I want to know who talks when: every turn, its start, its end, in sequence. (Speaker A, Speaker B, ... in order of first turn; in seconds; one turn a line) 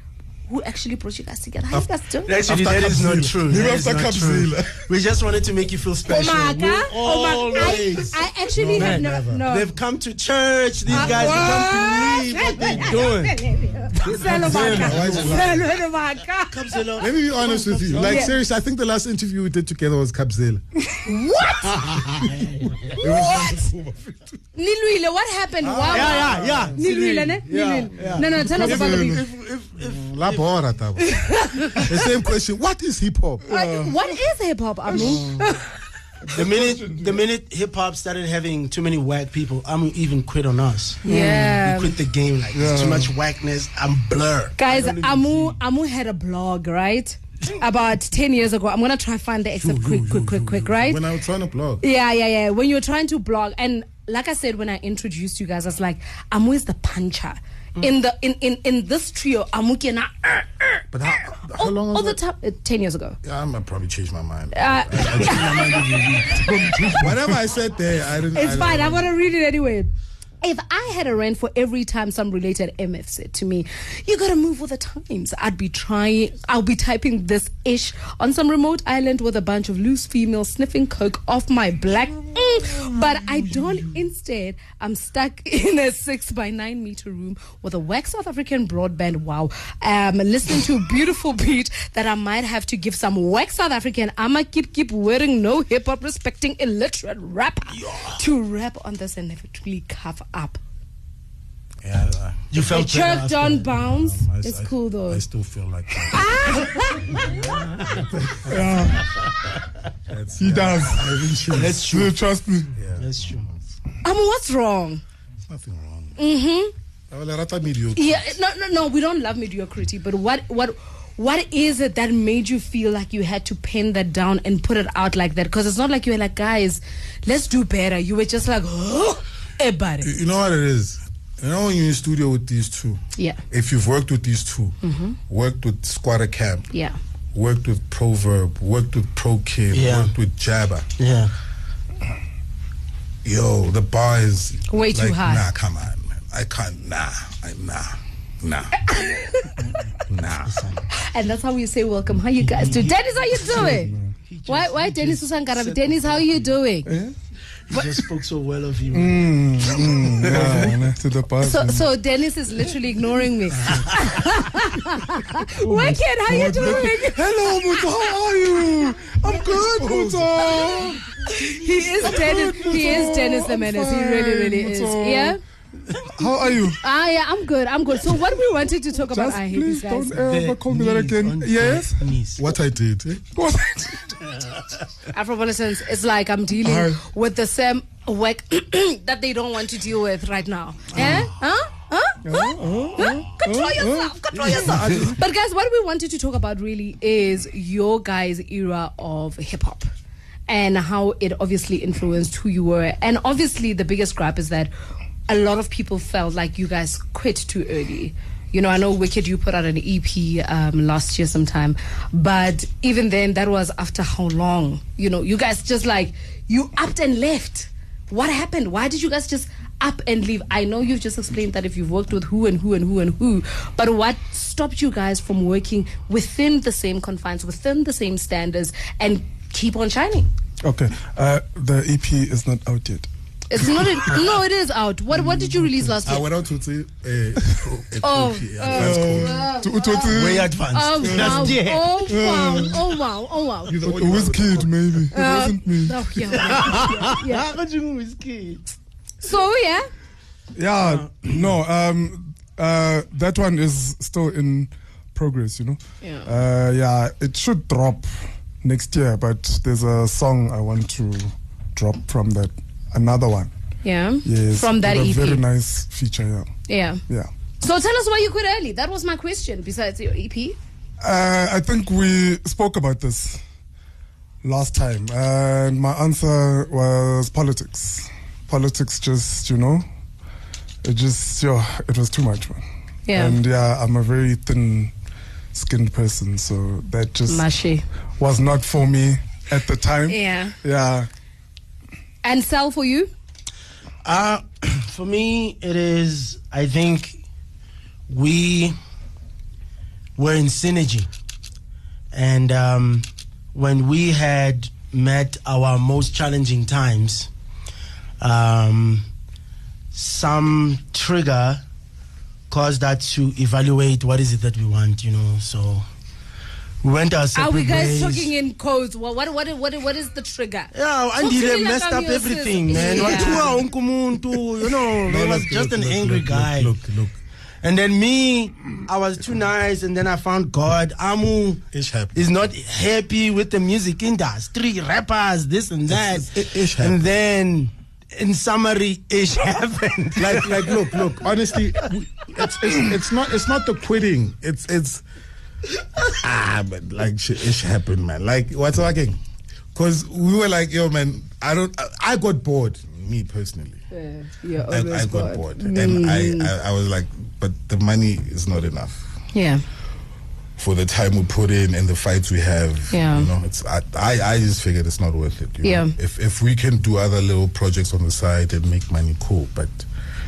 Speaker A: 0.5-2.4
Speaker B: 2.2-8.1
Speaker C: 2.4-4.8
Speaker A: 6.0-9.7
Speaker C: 7.5-9.4
Speaker B: 8.7-13.4
Speaker C: 10.9-11.9
Speaker A: 10.9-16.5
Speaker C: 12.5-13.1
Speaker B: 14.0-15.6
Speaker C: 14.2-15.7
Speaker B: 16.5-18.3
Speaker C: 17.0-20.6
Speaker A: 18.0-18.3
Speaker A: 21.0-21.7
Speaker B: 21.6-23.3
Speaker C: 23.0-24.4
Speaker A: 23.0-23.6
Speaker A: 24.5-29.2
Speaker C: 25.6-26.7
Speaker B: 25.9-30.5
Speaker D: 28.2-29.2
Speaker C: 29.9-33.4
Speaker A: 31.1-31.7
Speaker D: 33.5-34.0
Speaker A: 33.5-35.6
Speaker D: 35.0-35.4
Speaker D: 36.2-37.2
Speaker B: 36.3-45.6
Speaker A: 41.0-41.9
Speaker D: 42.5-43.1
Speaker A: 44.6-51.0
Speaker C: 49.6-51.8
Speaker A: 51.8-60.9
Speaker C: 60.9-62.2
Speaker A: 61.5-63.2
Speaker C: 63.2-66.3
Speaker A: 64.5-67.0
Speaker B: 65.3-66.2
Speaker D: 66.2-67.3
Speaker C: 67.0-69.1
Speaker A: 68.3-100.6
Speaker B: 97.7-98.2
Speaker C: 101.8-102.7
Speaker B: 102.5-103.7
Speaker A: 102.6-105.2
Speaker C: 103.6-106.2
Speaker A: 106.1-107.3
Speaker B: 107.4-108.0
Speaker C: 107.9-108.7
Speaker D: 108.5-109.0
Speaker C: 110.1-111.8
Speaker D: 110.4-112.7
Speaker B: 111.5-112.1
Speaker C: 112.7-113.7
Speaker B: 113.0-113.5
Speaker A: 114.0-115.0
Speaker C: 115.5-116.2
Speaker A: 116.2-116.7
Speaker C: 117.1-118.3
Speaker A: 117.9-130.1
Speaker C: 130.0-134.8
Speaker A: 133.2-133.4
Speaker A: 134.8-135.2
Speaker C: 135.3-136.7
Speaker A: 136.7-136.9
Speaker C: 137.3-140.9
Speaker B: 139.7-140.1
Speaker B: 141.0-141.3
Speaker C: 143.2-147.9
Speaker A: 144.7-145.4
Speaker C: 148.4-148.8
Speaker A: 148.9-149.5
Speaker C: 150.1-150.6
Speaker B: 150.6-150.8
Speaker A: 150.9-153.9
Speaker B: 152.4-156.6
Speaker D: 153.5-154.1
Speaker A: 154.4-156.9
Speaker D: 156.8-157.1
Speaker B: 157.7-160.7
Speaker D: 158.9-161.9
Speaker A: 161.4-167.3
Speaker D: 165.6-171.0
Speaker C: 169.9-170.2
Speaker A: 171.4-175.4
Speaker D: 172.0-175.3
Speaker D: 176.1-176.8
Speaker A: 176.8-180.2
Speaker D: 179.0-182.0
Speaker B: 180.2-182.4
Speaker C: 182.4-183.2
Speaker D: 183.3-184.1
Speaker A: 185.1-199.8
Speaker D: 186.6-187.0
Speaker D: 192.2-195.1
Speaker C: 194.7-195.1
Speaker A: 200.5-204.7
Speaker A: 205.3-230.3
Speaker D: 230.6-233.9
Speaker A: 233.5-236.2
Speaker C: 236.0-239.3
Speaker A: 238.0-240.1
Speaker D: 238.7-241.5
Speaker B: 240.1-242.0
Speaker A: 240.7-243.8
Speaker D: 242.1-242.9
Speaker C: 243.7-245.0
Speaker D: 243.8-246.0
Speaker A: 245.1-247.4
Speaker B: 246.3-248.6
Speaker A: 249.2-249.8
Speaker D: 250.5-258.1
Speaker B: 250.8-251.5
Speaker A: 256.0-256.3
Speaker D: 258.6-263.5
Speaker A: 263.8-265.4
Speaker D: 264.2-266.5
Speaker A: 266.7-267.0
Speaker A: 267.6-270.6
Speaker D: 271.0-273.4
Speaker D: 274.4-279.8
Speaker D: 280.8-284.9
Speaker A: 283.1-283.4
Speaker D: 285.5-287.4
Speaker A: 287.3-287.8
Speaker D: 288.2-291.1
Speaker A: 290.1-290.5
Speaker A: 292.2-293.1
Speaker B: 294.0-297.2
Speaker B: 298.1-298.7
Speaker B: 300.2-301.1
Speaker B: 302.1-307.3
Speaker B: 308.2-309.0
Speaker B: 309.9-311.6
Speaker B: 312.5-315.9
Speaker B: 316.8-318.3
Speaker A: 317.3-323.6
Speaker B: 320.7-326.8
Speaker C: 323.1-323.4
Speaker C: 325.0-327.1
Speaker B: 327.6-341.1
Speaker C: 331.7-332.3
Speaker C: 335.9-337.1
Speaker C: 340.2-345.0
Speaker C: 346.0-349.2
Speaker C: 349.7-353.8
Speaker A: 353.9-356.5
Speaker C: 354.7-359.0
Speaker A: 359.3-359.6
Speaker C: 360.6-369.9
Speaker A: 362.9-363.3
Speaker A: 365.6-365.9